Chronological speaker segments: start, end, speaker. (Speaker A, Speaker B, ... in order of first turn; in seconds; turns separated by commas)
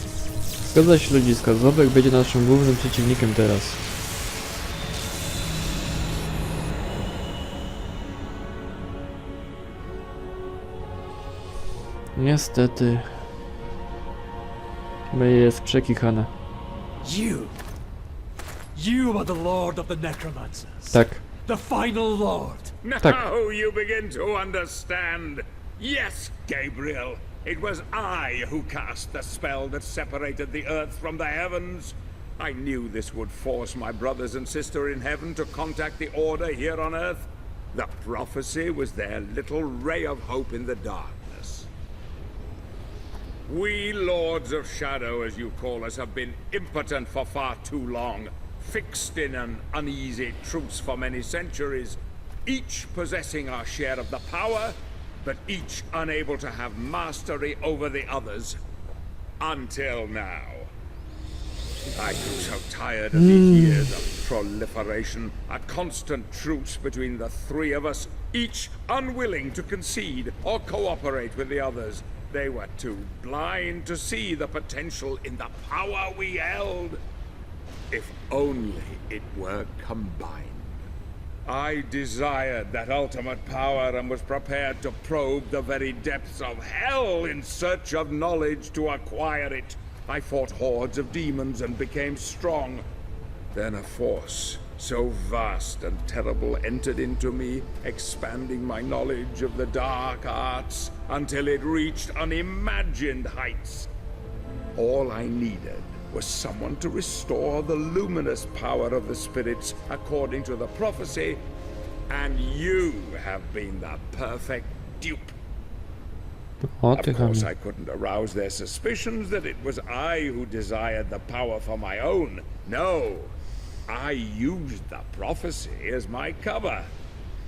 Speaker A: 0.6-3.8, Speaker A: 12.2-13.2, Speaker A: 15.1-16.3, Speaker B: 17.0-17.6, Speaker B: 18.7-22.7, Speaker A: 20.9-21.2, Speaker C: 22.8-41.7, Speaker C: 43.5-58.6, Speaker C: 59.4-60.7, Speaker C: 61.9-77.0, Speaker A: 63.1-63.9, Speaker C: 77.9-80.8, Speaker C: 81.5-92.8, Speaker C: 93.5-103.9, Speaker C: 104.8-111.4, Speaker C: 112.1-115.3, Speaker A: 116.7-117.5, Speaker C: 116.9-123.3, Speaker C: 123.9-126.9